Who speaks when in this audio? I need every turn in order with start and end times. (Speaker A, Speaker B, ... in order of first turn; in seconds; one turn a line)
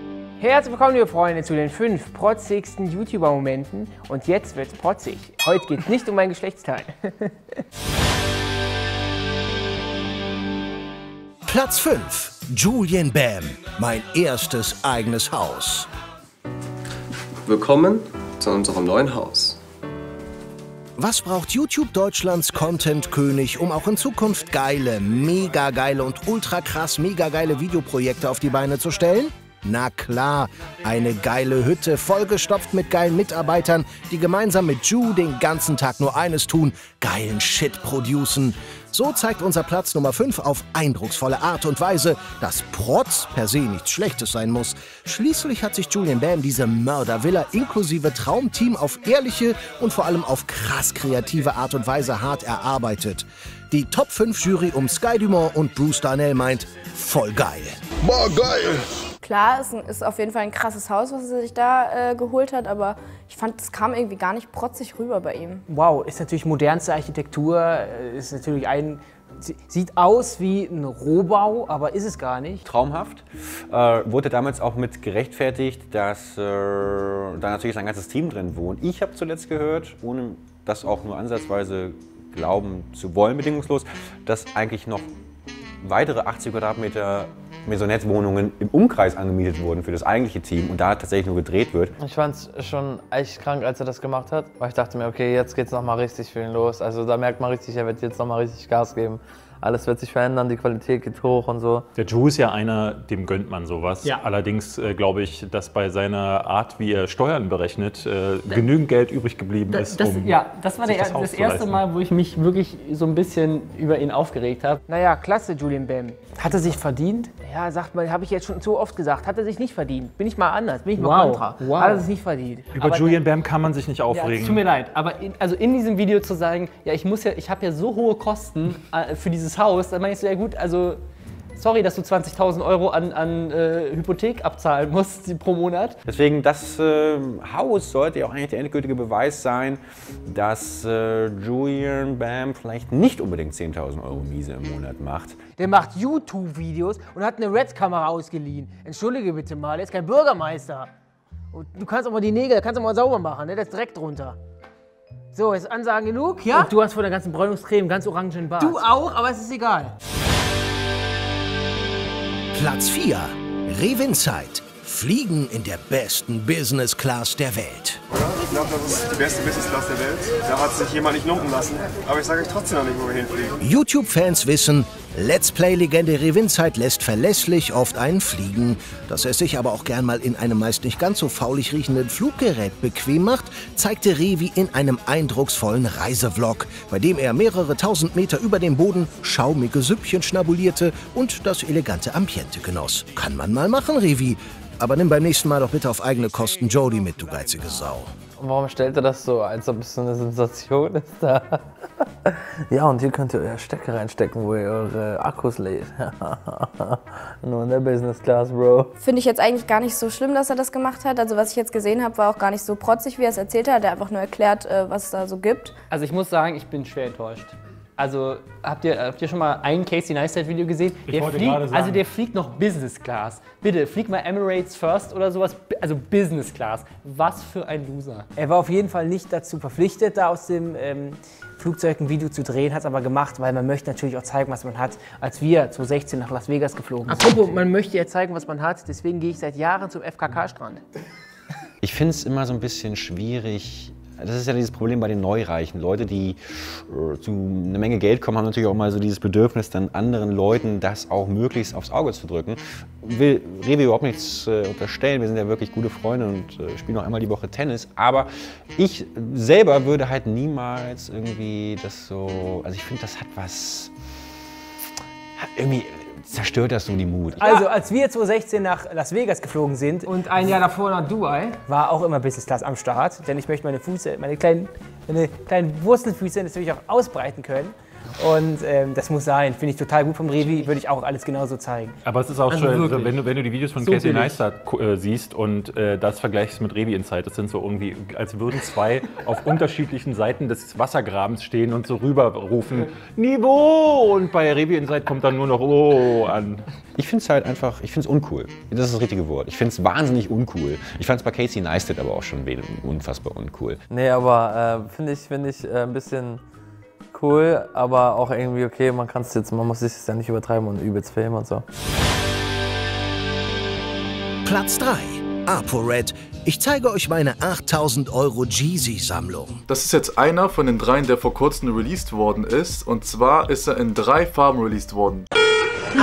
Speaker A: 0.4-7.4
Speaker B: 11.4-15.9
Speaker C: 17.4-19.6
Speaker B: 21.0-57.8
Speaker D: 59.2-65.6
Speaker A: 65.7-72.6
Speaker E: 72.6-85.1
Speaker E: 85.8-91.9
Speaker F: 92.0-101.9
Speaker G: 102.0-111.8
Speaker H: 109.7-114.8
Speaker A: 114.9-123.2
Speaker H: 120.9-122.1
Speaker G: 122.7-124.6
Speaker H: 124.1-131.0
Speaker H: 131.6-135.9
Speaker E: 136.1-145.4
Speaker A: 145.6-150.9
Speaker A: 151.5-154.4
Speaker A: 155.3-159.9
Speaker B: 162.5-168.0
Speaker B: 173.6-198.1
Speaker F: 198.4-201.6
Speaker F: 202.2-208.9
Speaker D: 209.0-215.7
Speaker H: 215.9-228.3
Speaker G: 221.1-222.0
Speaker A: 228.4-240.8
Speaker H: 237.3-237.5
Speaker E: 241.8-263.9
Speaker E: 265.4-267.6
Speaker A: 267.4-281.9
Speaker G: 282.0-296.6
Speaker H: 282.5-283.1
Speaker H: 283.8-284.4
Speaker E: 296.9-303.8
Speaker F: 303.9-306.4
Speaker F: 307.1-311.6
Speaker B: 314.4-319.6
Speaker I: 319.7-325.3